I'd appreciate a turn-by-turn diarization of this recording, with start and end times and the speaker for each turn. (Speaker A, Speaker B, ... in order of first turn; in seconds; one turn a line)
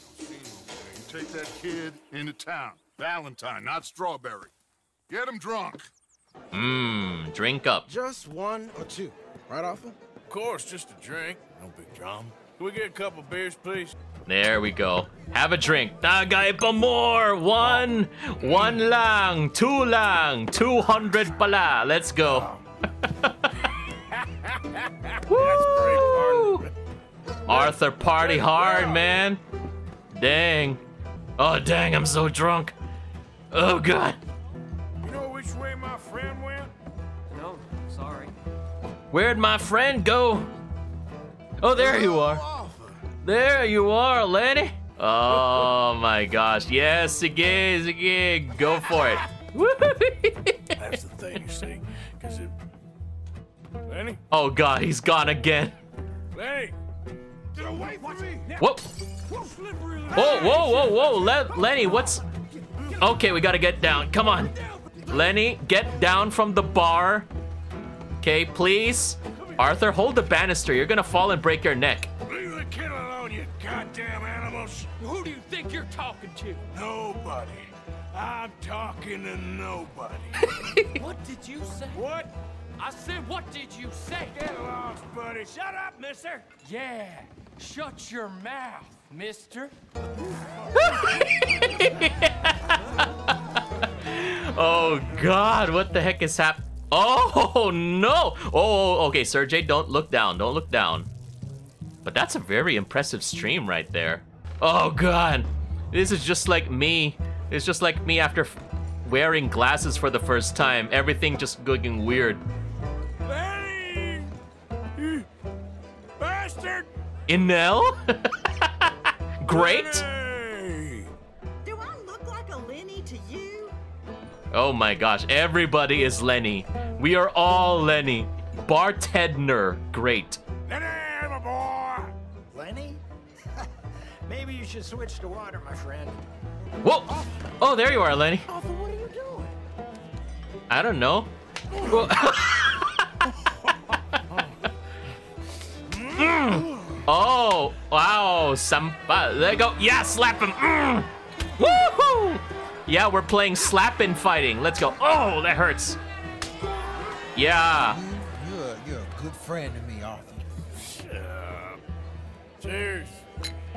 Speaker A: 0.1-4.5
Speaker A: 5.1-5.9
Speaker B: 6.5-7.9
Speaker C: 7.9-8.9
Speaker D: 8.0-9.1
Speaker C: 9.5-9.9
Speaker E: 10.3-13.9
Speaker B: 14.3-22.5
Speaker E: 18.4-18.8
Speaker B: 23.0-23.7
Speaker E: 25.0-26.7
Speaker B: 25.3-26.7
Speaker B: 27.5-29.4
Speaker E: 28.2-29.1
Speaker B: 30.1-30.8
Speaker B: 31.4-32.7
Speaker B: 33.5-34.2
Speaker E: 35.0-36.7
Speaker F: 37.3-38.3
Speaker B: 39.1-40.5
Speaker B: 41.6-42.5
Speaker E: 42.1-42.8
Speaker B: 43.2-50.8
Speaker E: 50.8-52.5
Speaker E: 53.9-54.2
Speaker B: 54.3-55.8
Speaker E: 56.3-56.8
Speaker E: 57.6-58.5
Speaker B: 58.6-59.0
Speaker E: 59.4-60.9
Speaker B: 60.1-62.2
Speaker B: 62.9-64.5
Speaker B: 65.1-67.3
Speaker B: 68.2-72.1
Speaker E: 72.3-75.0
Speaker F: 75.0-76.6
Speaker E: 76.7-80.9
Speaker B: 80.5-81.0
Speaker F: 81.0-82.1
Speaker E: 81.9-82.3
Speaker F: 82.8-84.3
Speaker E: 84.3-86.4
Speaker F: 86.2-89.7
Speaker B: 90.7-101.1
Speaker B: 102.0-112.4
Speaker E: 113.2-114.3
Speaker E: 115.0-115.3
Speaker E: 116.2-116.9
Speaker B: 117.3-120.1
Speaker E: 119.5-121.1
Speaker G: 121.6-123.8
Speaker B: 124.5-130.4
Speaker E: 130.7-132.1
Speaker D: 132.5-133.0
Speaker D: 134.3-136.2
Speaker B: 136.8-138.5
Speaker D: 138.6-139.5
Speaker B: 140.7-143.4
Speaker B: 146.1-156.0
Speaker B: 157.3-158.0
Speaker C: 157.8-160.5
Speaker E: 160.8-161.8
Speaker E: 162.6-163.2